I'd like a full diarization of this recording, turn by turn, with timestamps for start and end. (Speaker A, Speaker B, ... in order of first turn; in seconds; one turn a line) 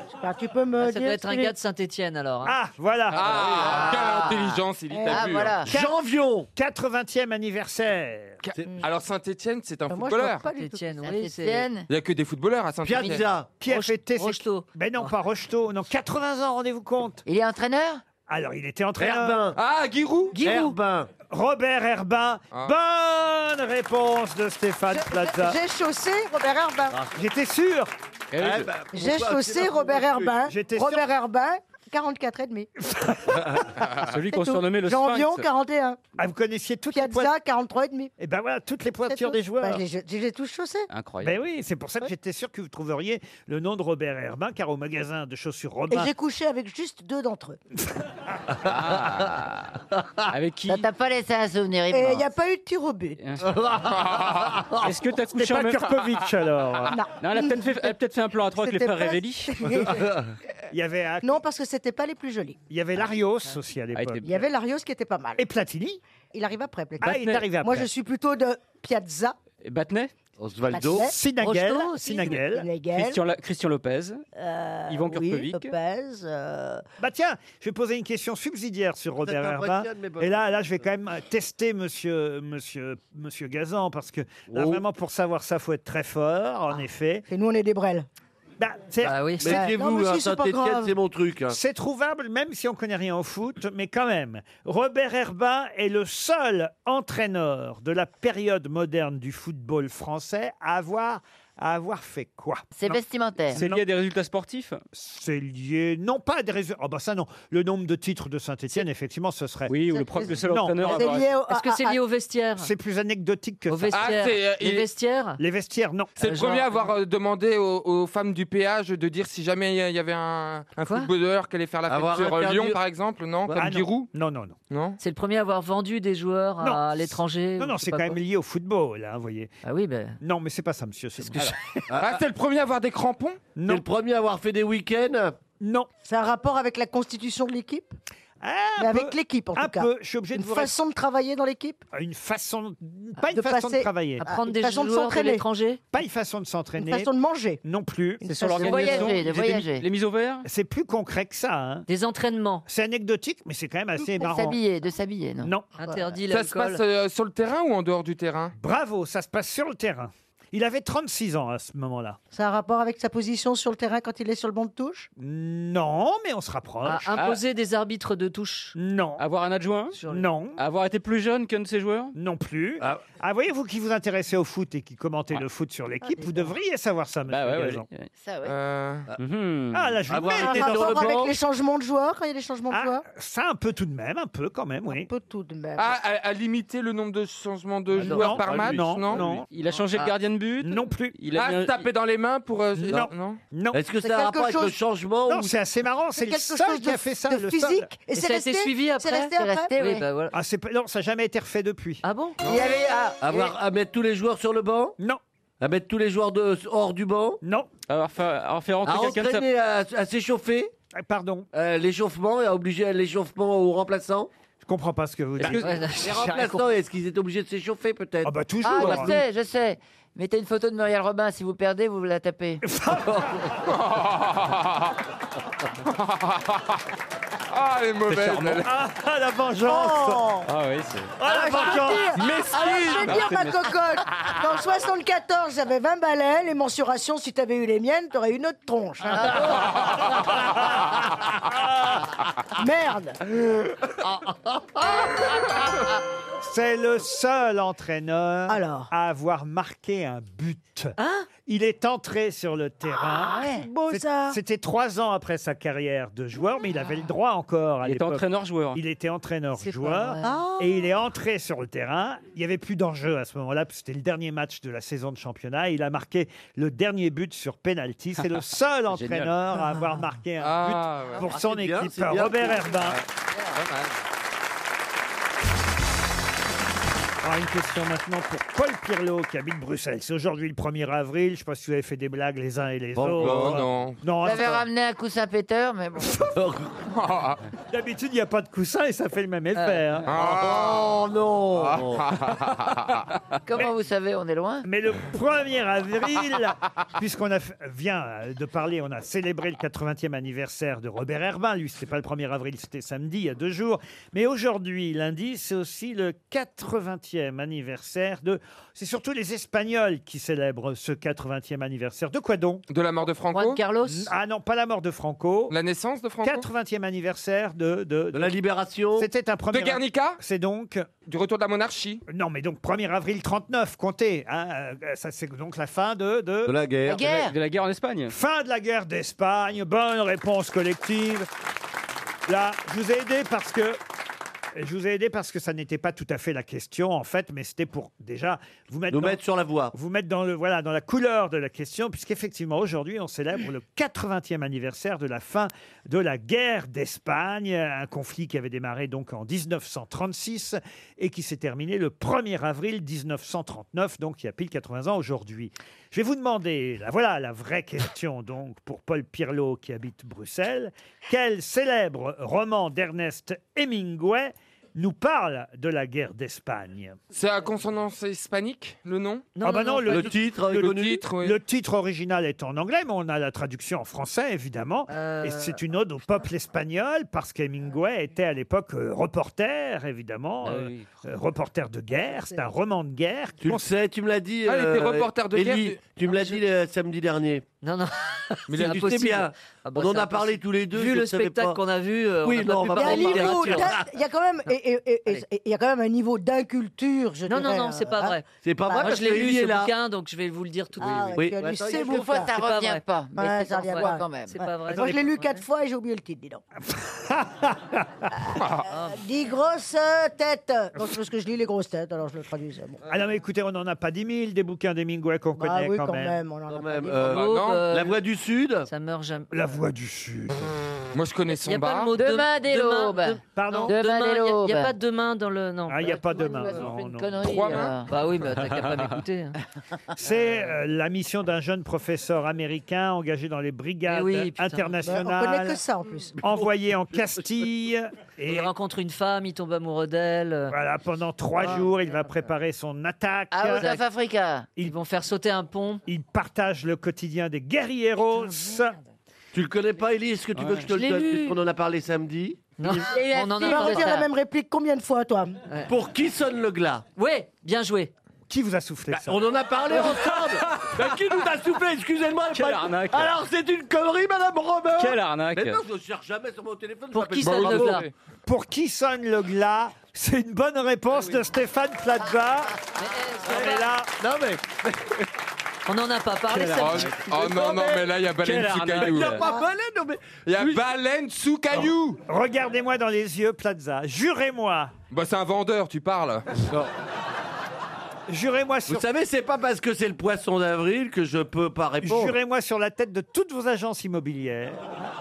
Speaker A: 0.2-1.5
Speaker B: 0.8-2.5
Speaker C: 2.4-4.2
Speaker D: 3.1-5.6
Speaker E: 3.6-5.7
Speaker A: 4.9-5.4
Speaker F: 5.7-6.5
Speaker C: 5.7-5.9
Speaker C: 6.5-8.4
Speaker D: 8.4-10.5
Speaker A: 9.9-11.0
Speaker B: 10.5-11.7
Speaker E: 11.0-11.9
Speaker D: 11.9-13.2
Speaker F: 12.8-13.5
Speaker C: 13.6-17.2
Speaker B: 13.7-15.1
Speaker E: 17.2-18.0
Speaker C: 18.3-19.4
Speaker F: 19.0-19.6
Speaker D: 19.5-20.3
Speaker A: 20.3-20.7
Speaker F: 20.3-21.1
Speaker C: 21.3-25.6
Speaker A: 24.9-27.0
Speaker F: 26.9-27.2
Speaker C: 27.1-27.9
Speaker G: 28.3-28.7
Speaker F: 28.4-30.4
Speaker A: 28.9-32.7
Speaker C: 30.5-31.1
Speaker C: 32.9-33.5
Speaker G: 34.0-35.5
Speaker A: 34.2-36.0
Speaker C: 36.2-37.3
Speaker A: 36.9-38.1
Speaker C: 38.2-39.8
Speaker A: 39.1-40.9
Speaker G: 40.9-41.4
Speaker C: 41.2-46.1
Speaker A: 45.9-47.6
Speaker G: 48.6-50.9
Speaker E: 50.7-52.3
Speaker A: 51.9-53.2
Speaker G: 53.2-53.5
Speaker F: 53.4-54.9
Speaker D: 54.0-54.6
Speaker G: 54.8-55.9
Speaker C: 55.3-57.0
Speaker A: 56.9-60.1
Speaker G: 57.2-59.5
Speaker F: 59.9-60.3
Speaker C: 60.7-61.4
Speaker A: 61.2-62.6
Speaker C: 62.7-64.3
Speaker G: 63.9-64.4
Speaker A: 64.2-65.4
Speaker C: 65.4-66.0
Speaker A: 66.3-69.4
Speaker C: 67.0-67.9
Speaker G: 69.6-70.1
Speaker F: 70.4-71.1
Speaker A: 70.7-71.2
Speaker C: 71.0-72.7
Speaker B: 71.4-72.4
Speaker A: 72.2-73.2
Speaker G: 72.9-74.2
Speaker A: 74.3-76.8
Speaker G: 74.9-75.7
Speaker C: 77.0-87.2
Speaker F: 79.2-80.6
Speaker F: 84.5-84.8
Speaker A: 87.3-88.1
Speaker C: 88.6-89.7
Speaker B: 89.0-89.5
Speaker F: 89.4-91.6
Speaker A: 89.4-90.9
Speaker C: 91.5-102.9
Speaker E: 102.7-103.6
Speaker G: 103.5-104.8
Speaker C: 103.5-103.8
Speaker C: 104.9-109.7
Speaker G: 109.7-111.3
Speaker A: 109.8-112.0
Speaker C: 110.3-111.0
Speaker B: 111.5-112.7
Speaker C: 112.6-114.1
Speaker B: 113.7-115.4
Speaker D: 113.9-114.8
Speaker C: 115.4-116.2
Speaker D: 116.2-124.1
Speaker B: 116.2-116.9
Speaker F: 121.9-122.8
Speaker F: 123.4-123.7
Speaker C: 123.6-124.6
Speaker D: 124.7-125.0
Speaker B: 125.0-128.2
Speaker C: 126.6-129.5
Speaker B: 129.6-130.2
Speaker C: 130.2-131.8
Speaker F: 131.9-132.2
Speaker D: 131.9-133.4
Speaker C: 133.6-133.8
Speaker F: 133.7-135.4
Speaker C: 135.6-135.9
Speaker A: 136.0-137.9
Speaker C: 138.4-140.7
Speaker A: 138.8-141.8
Speaker C: 141.9-144.2
Speaker A: 143.2-145.4
Speaker B: 144.2-145.8
Speaker C: 145.9-147.1
Speaker A: 146.8-147.6
Speaker C: 147.6-148.2
Speaker A: 148.2-149.2
Speaker G: 148.2-150.5
Speaker E: 148.6-149.8
Speaker C: 150.4-151.8
Speaker B: 151.9-152.6
Speaker C: 152.7-154.6
Speaker E: 154.2-155.5
Speaker C: 155.4-155.7
Speaker B: 155.8-156.8
Speaker D: 156.3-158.6
Speaker C: 158.6-162.2
Speaker A: 162.3-165.1
Speaker C: 165.2-167.2
Speaker B: 166.8-168.7
Speaker C: 168.8-169.2
Speaker G: 169.2-170.0
Speaker B: 169.9-170.2
Speaker C: 170.1-170.6
Speaker G: 170.6-172.2
Speaker C: 172.1-177.8
Speaker A: 176.0-176.5
Speaker G: 177.3-178.1
Speaker E: 178.2-178.5
Speaker D: 178.4-179.1
Speaker G: 179.2-180.0
Speaker C: 179.7-181.3
Speaker F: 180.1-181.3
Speaker A: 180.2-183.0
Speaker C: 182.7-185.1
Speaker A: 184.9-186.0
Speaker D: 185.8-189.2
Speaker F: 187.9-189.4
Speaker C: 187.9-189.5
Speaker G: 189.3-191.9
Speaker C: 190.6-191.2
Speaker D: 191.3-193.4
Speaker C: 192.8-193.8
Speaker F: 193.7-195.5
Speaker A: 194.0-194.8
Speaker C: 195.3-197.9
Speaker A: 196.1-199.7
Speaker B: 198.1-200.3
Speaker E: 199.4-200.0
Speaker C: 200.3-202.0
Speaker B: 202.0-202.4
Speaker D: 202.4-202.7
Speaker E: 202.4-203.5
Speaker F: 203.2-205.0
Speaker F: 205.6-207.4
Speaker C: 207.4-207.7
Speaker G: 207.9-209.5
Speaker F: 208.8-210.7
Speaker C: 210.9-211.5
Speaker F: 211.5-214.3
Speaker C: 214.6-215.8
Speaker F: 215.4-219.2
Speaker B: 215.5-216.6
Speaker C: 218.2-219.2
Speaker E: 218.6-222.6
Speaker C: 222.6-223.6
Speaker D: 223.7-224.9
Speaker D: 225.8-226.8
Speaker D: 227.5-228.7
Speaker G: 228.1-228.6
Speaker C: 228.4-230.3
Speaker A: 229.6-230.5
Speaker G: 230.4-231.2
Speaker C: 231.2-233.1
Speaker A: 231.2-239.9
Speaker F: 231.3-233.0
Speaker G: 233.0-233.7
Speaker A: 242.5-243.2
Speaker C: 246.4-273.0
Speaker A: 248.5-248.9
Speaker B: 251.0-251.3
Speaker E: 253.3-253.6
Speaker A: 253.4-254.4
Speaker G: 257.8-258.8
Speaker B: 259.6-260.3
Speaker A: 260.2-260.9
Speaker G: 268.9-269.3
Speaker A: 269.6-269.9
Speaker D: 270.4-271.2
Speaker F: 271.2-272.8
Speaker D: 273.5-274.0
Speaker C: 277.2-284.7
Speaker F: 282.9-283.6
Speaker D: 283.2-284.0
Speaker E: 284.2-286.3
Speaker F: 286.3-286.7
Speaker D: 286.9-287.4
Speaker C: 287.7-290.1
Speaker B: 289.5-289.8
Speaker D: 290.1-290.9
Speaker F: 290.1-292.1
Speaker D: 291.5-293.0
Speaker E: 293.4-294.7
Speaker C: 294.6-312.6
Speaker D: 312.7-313.6
Speaker B: 313.3-314.1
Speaker C: 313.8-315.5
Speaker D: 315.5-316.5
Speaker C: 316.2-318.3
Speaker F: 318.1-319.1
Speaker C: 318.9-321.0
Speaker D: 319.5-320.2
Speaker D: 321.0-322.0
Speaker C: 322.1-326.5
Speaker F: 326.4-327.3
Speaker E: 326.9-327.3
Speaker G: 327.1-328.1
Speaker C: 328.1-331.3
Speaker C: 332.3-333.8
Speaker C: 334.6-339.2
Speaker F: 338.9-339.7
Speaker C: 339.7-367.0
Speaker D: 367.1-369.4
Speaker B: 369.4-370.0
Speaker C: 369.4-383.7
Speaker F: 369.9-371.0
Speaker D: 370.5-371.4
Speaker B: 374.9-375.6
Speaker G: 380.4-380.8
Speaker A: 382.1-382.4
Speaker F: 383.4-387.4
Speaker D: 384.4-385.8
Speaker B: 387.6-393.8
Speaker D: 388.5-388.8
Speaker F: 388.5-391.6
Speaker F: 392.2-393.9
Speaker A: 392.7-399.1
Speaker B: 397.3-401.2
Speaker F: 398.4-399.7
Speaker A: 400.8-402.3
Speaker F: 401.1-402.0
Speaker E: 401.8-404.3
Speaker B: 402.1-402.8
Speaker A: 403.1-406.4
Speaker B: 403.7-405.4
Speaker C: 406.6-408.1
Speaker D: 408.3-408.7
Speaker B: 408.7-409.0
Speaker A: 408.8-412.8
Speaker C: 412.9-416.2
Speaker A: 415.4-417.1
Speaker F: 416.5-418.7
Speaker B: 417.1-418.0
Speaker D: 417.1-417.7
Speaker B: 418.6-419.3
Speaker C: 419.3-420.5
Speaker D: 420.9-421.9
Speaker B: 421.4-426.6
Speaker E: 422.0-424.7
Speaker C: 423.4-423.7
Speaker C: 425.7-427.4
Speaker E: 426.1-427.9
Speaker D: 427.2-427.7
Speaker B: 427.9-429.4
Speaker G: 428.5-428.9
Speaker C: 430.0-435.6
Speaker B: 433.9-434.7
Speaker A: 434.8-436.2
Speaker C: 436.2-438.5
Speaker B: 438.3-440.5
Speaker C: 440.5-443.7
Speaker B: 441.4-442.2
Speaker E: 443.3-444.5
Speaker B: 444.6-445.8
Speaker C: 445.9-448.7
Speaker F: 449.3-452.8
Speaker G: 450.4-450.7
Speaker E: 450.7-451.4
Speaker B: 452.6-454.1
Speaker E: 452.8-454.0
Speaker A: 453.4-455.4
Speaker F: 455.7-456.8
Speaker B: 456.9-457.9
Speaker C: 458.3-459.2
Speaker F: 458.9-467.8
Speaker G: 462.3-463.1
Speaker G: 464.8-465.6
Speaker B: 466.9-467.9
Speaker D: 467.2-467.9
Speaker C: 468.2-472.6
Speaker B: 472.8-473.7
Speaker C: 473.2-473.9
Speaker F: 473.3-475.0
Speaker B: 475.7-477.0
Speaker G: 476.3-479.3
Speaker D: 476.5-479.2
Speaker F: 477.3-477.6
Speaker F: 478.8-480.6
Speaker D: 480.3-482.0
Speaker C: 482.1-484.7
Speaker D: 484.9-486.2
Speaker C: 488.1-488.8
Speaker F: 488.7-492.2
Speaker C: 491.8-494.7